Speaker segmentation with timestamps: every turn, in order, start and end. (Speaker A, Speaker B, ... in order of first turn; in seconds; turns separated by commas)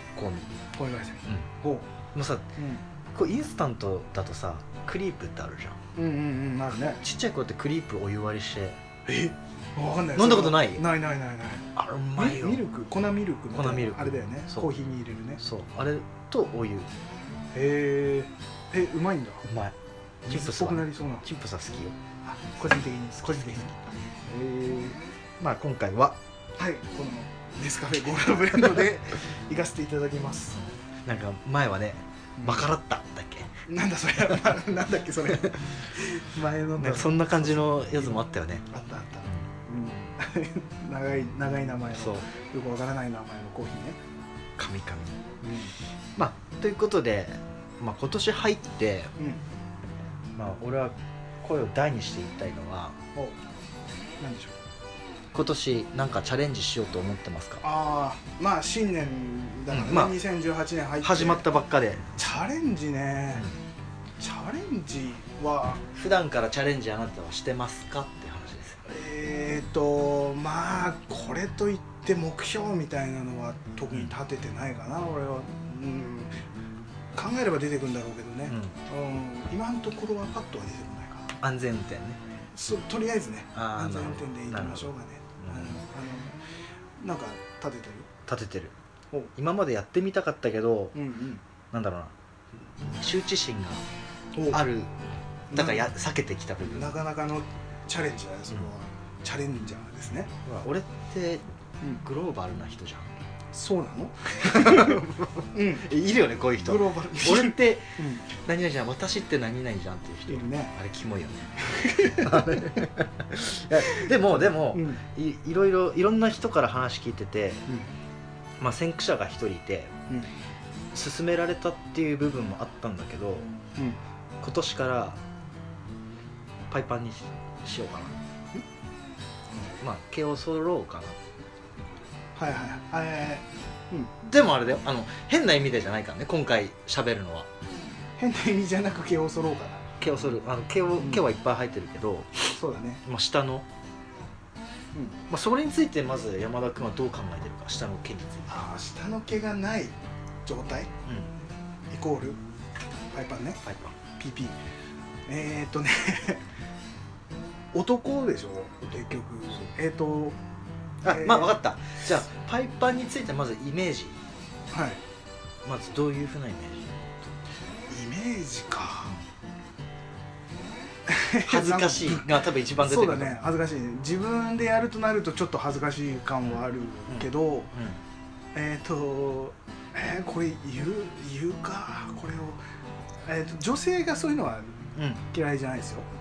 Speaker A: 0.2-0.5, Speaker B: 0.7-1.9, Speaker A: 2.1-2.5, Speaker B: 2.6-2.8, Speaker A: 3.1-5.8, Speaker B: 6.0-7.0, Speaker A: 7.0-8.8, Speaker B: 9.1-15.4, Speaker A: 10.2-10.8, Speaker A: 11.8-12.6, Speaker A: 13.5-14.7, Speaker A: 15.4-16.9, Speaker B: 17.5-19.4, Speaker A: 19.4-21.9, Speaker B: 20.3-21.2, Speaker B: 22.2-25.0, Speaker A: 25.4-26.2, Speaker B: 26.6-30.6, Speaker A: 30.6-33.6, Speaker B: 32.4-32.7, Speaker B: 33.7-44.0, Speaker A: 36.8-38.6, Speaker A: 41.9-42.3, Speaker A: 44.6-45.2, Speaker B: 45.4-45.8, Speaker A: 46.1-49.1, Speaker B: 49.2-49.4, Speaker A: 50.4-53.0, Speaker B: 54.2-54.6, Speaker A: 55.3-57.6, Speaker B: 57.6-61.5, Speaker A: 59.7-60.2, Speaker A: 61.0-62.2, Speaker B: 62.2-63.5, Speaker B: 64.2-65.8, Speaker A: 65.9-68.8, Speaker B: 68.9-76.4, Speaker B: 77.1-81.3, Speaker A: 78.5-78.8, Speaker A: 81.4-82.2, Speaker B: 82.5-86.4, Speaker A: 83.5-85.8, Speaker B: 87.0-88.1, Speaker A: 88.3-88.8, Speaker A: 89.3-91.0, Speaker B: 90.9-91.4, Speaker A: 91.7-92.1, Speaker A: 92.8-93.8, Speaker B: 94.3-94.6, Speaker A: 94.5-94.9, Speaker A: 95.5-97.0, Speaker B: 95.5-95.9, Speaker B: 96.6-100.3, Speaker A: 100.5-101.4, Speaker A: 102.0-103.1, Speaker B: 103.5-105.9, Speaker A: 104.4-117.7, Speaker B: 106.6-108.2, Speaker B: 110.3-110.7, Speaker B: 111.6-112.8, Speaker B: 113.8-115.0, Speaker A: 118.6-120.0, Speaker A: 120.9-123.5, Speaker A: 124.4-125.2, Speaker A: 126.7-128.2, Speaker A: 129.7-131.2, Speaker B: 132.4-134.2, Speaker A: 134.2-137.5, Speaker B: 138.2-139.9, Speaker A: 140.0-143.7, Speaker B: 142.6-143.0, Speaker A: 145.3-148.6, Speaker B: 148.5-150.9, Speaker B: 151.9-152.4, Speaker B: 153.1-153.6, Speaker A: 153.6-153.9, Speaker B: 154.2-154.6, Speaker B: 155.3-156.5, Speaker B: 157.7-160.4, Speaker A: 161.0-164.2, Speaker B: 161.1-161.6, Speaker B: 164.7-165.0, Speaker A: 165.7-167.3, Speaker B: 167.9-169.2, Speaker B: 171.1-177.7, Speaker A: 171.5-173.4, Speaker A: 177.1-178.0, Speaker B: 178.5-182.6, Speaker B: 183.2-186.1, Speaker A: 185.0-185.2